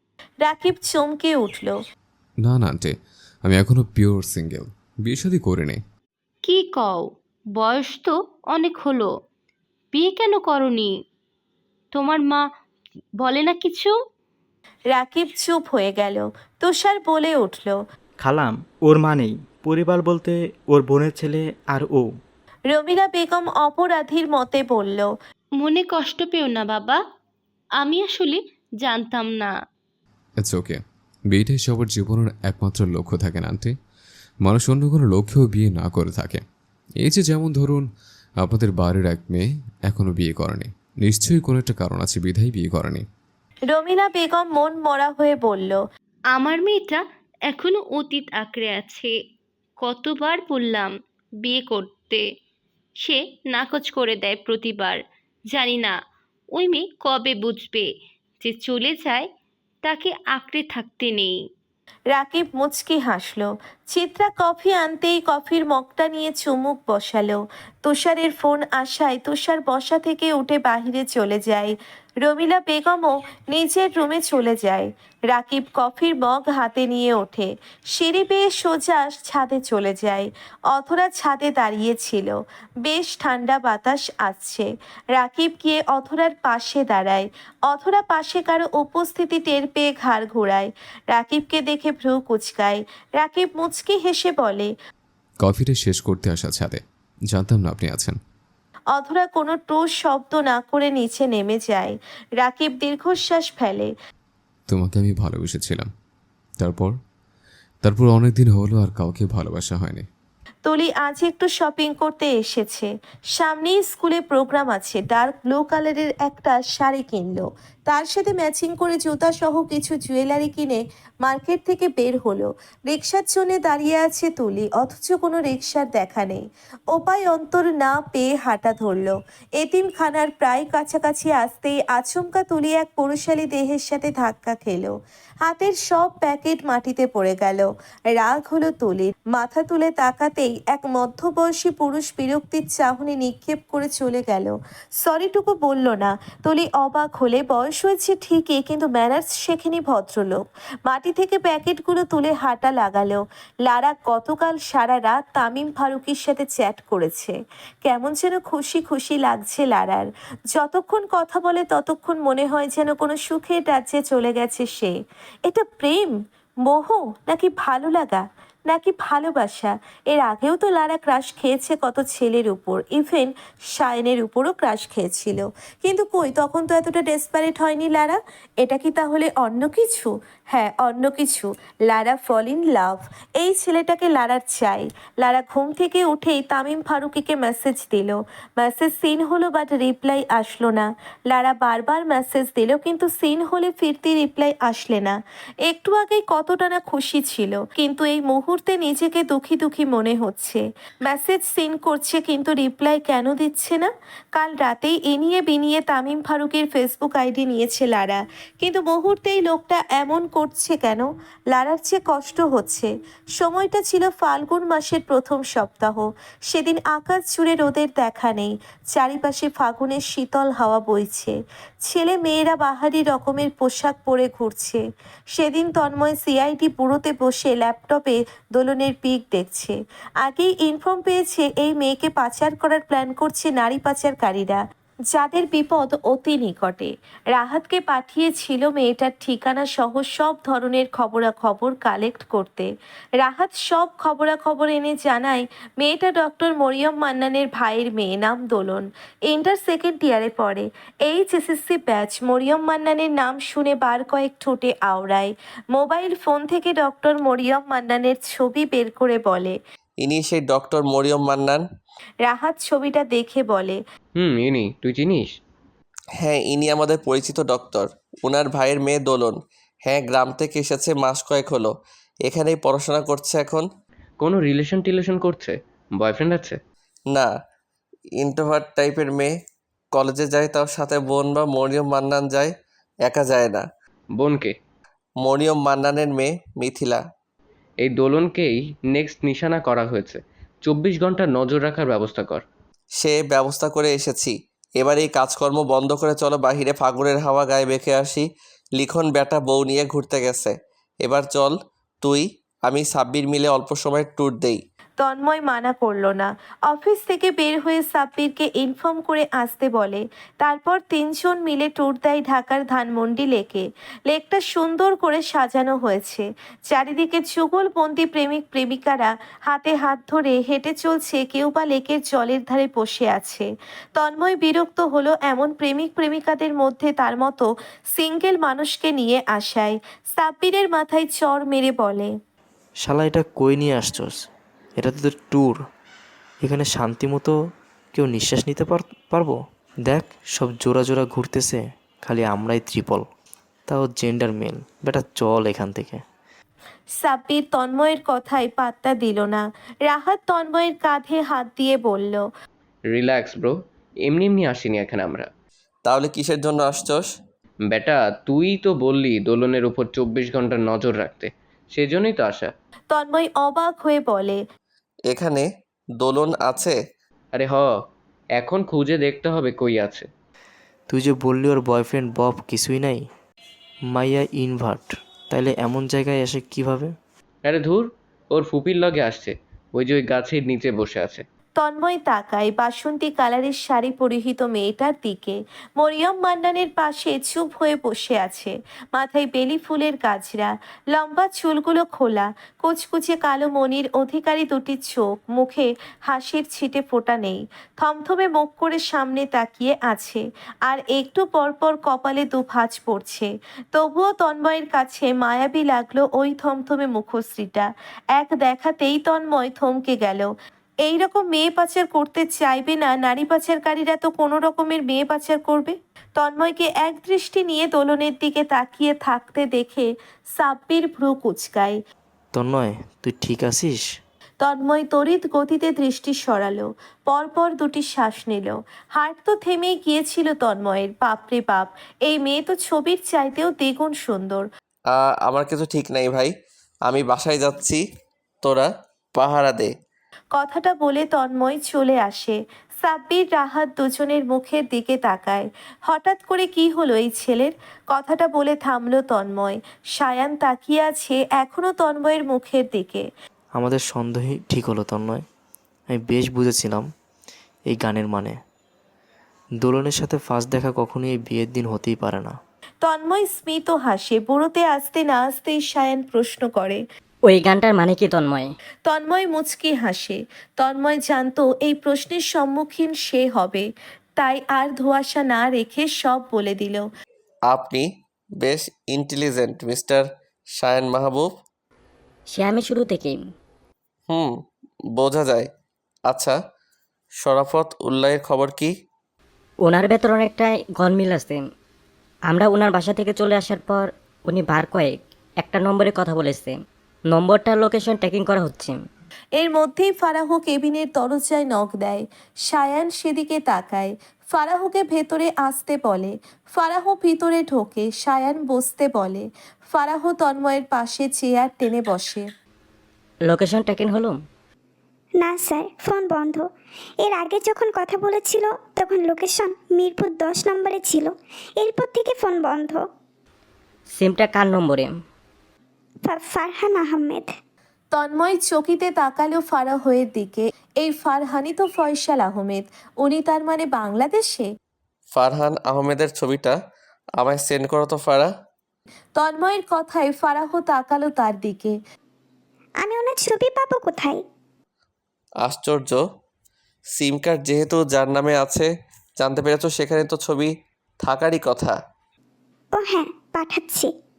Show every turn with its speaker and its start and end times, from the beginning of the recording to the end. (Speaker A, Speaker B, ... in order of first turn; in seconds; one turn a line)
Speaker A: 0.4-1.7
Speaker B: 2.4-2.9
Speaker B: 3.4-5.8
Speaker C: 6.4-9.1
Speaker C: 9.9-10.9
Speaker C: 11.9-12.4
Speaker C: 13.2-13.9
Speaker A: 14.9-17.8
Speaker D: 18.2-22.1
Speaker A: 22.7-25.1
Speaker C: 25.6-27.0
Speaker C: 27.8-29.5
Speaker B: 30.4-33.7
Speaker B: 34.4-36.4
Speaker B: 37.0-37.8
Speaker B: 38.4-43.0
Speaker A: 43.7-45.8
Speaker C: 46.3-49.1
Speaker C: 49.8-52.2
Speaker C: 53.0-56.0
Speaker C: 56.5-57.9
Speaker C: 58.4-59.3
Speaker C: 59.8-61.4
Speaker A: 62.1-94.7
Speaker B: 95.4-96.8
Speaker B: 97.3-98.2
Speaker A: 98.9-103.9
Speaker B: 104.7-105.9
Speaker B: 106.6-106.9
Speaker B: 107.8-110.0
Speaker A: 110.6-134.9
Speaker A: 135.4-164.9
Speaker A: 165.5-224.8
Speaker A: 225.4-234.6
Speaker A: 235.1-242.7
Speaker A: 243.2-259.6
Speaker E: 260.0-261.6
Speaker A: 262.2-263.8
Speaker F: 264.1-265.4
Speaker E: 266.2-271.7
Speaker E: 272.2-273.7
Speaker F: 274.2-276.6
Speaker E: 278.2-279.3
Speaker E: 279.9-282.5
Speaker E: 283.0-283.6
Speaker F: 284.1-284.6
Speaker E: 285.2-287.0
Speaker F: 287.8-292.4
Speaker E: 293.0-304.6
Speaker A: 305.0-332.1
Speaker G: 332.8-334.2
Speaker G: 334.8-335.6
Speaker G: 336.4-337.3
Speaker G: 337.9-343.1
Speaker G: 343.7-346.0
Speaker A: 347.0-352.2
Speaker F: 352.9-355.3
Speaker E: 355.9-357.1
Speaker F: 357.7-362.5
Speaker A: 362.9-364.4
Speaker E: 365.1-365.4
Speaker E: 366.0-366.8
Speaker F: 367.3-367.8
Speaker F: 368.4-370.1
Speaker G: 370.9-373.1
Speaker G: 373.9-376.9
Speaker F: 377.4-381.2
Speaker A: 381.6-410.3
Speaker A: 410.8-421.8
Speaker G: 422.3-423.9
Speaker A: 424.4-434.4
Speaker E: 434.9-436.3
Speaker E: 436.9-437.8
Speaker E: 438.4-439.7
Speaker A: 440.4-453.1
Speaker G: 453.6-455.2
Speaker G: 455.9-456.9
Speaker G: 457.7-458.4
Speaker G: 459.6-462.4
Speaker A: 462.8-466.8
Speaker H: 467.2-468.5
Speaker A: 468.9-473.6
Speaker A: 474.2-476.9
Speaker E: 477.5-477.9
Speaker E: 478.4-481.3
Speaker H: 482.3-483.2
Speaker E: 484.1-484.4
Speaker E: 484.9-485.5
Speaker E: 486.1-486.4
Speaker E: 487.2-488.7
Speaker H: 489.6-491.4
Speaker H: 492.3-496.6
Speaker H: 497.1-498.8
Speaker A: 499.4-512.2
Speaker H: 513.2-514.2
Speaker I: 515.2-516.4
Speaker I: 517.0-522.8
Speaker H: 523.9-524.9
Speaker I: 526.0-527.3
Speaker A: 527.9-534.5
Speaker E: 535.1-536.6
Speaker E: 537.2-538.3
Speaker A: 539.1-541.8
Speaker I: 542.8-544.2
Speaker E: 545.4-546.0
Speaker E: 546.9-551.7
Speaker I: 552.8-553.9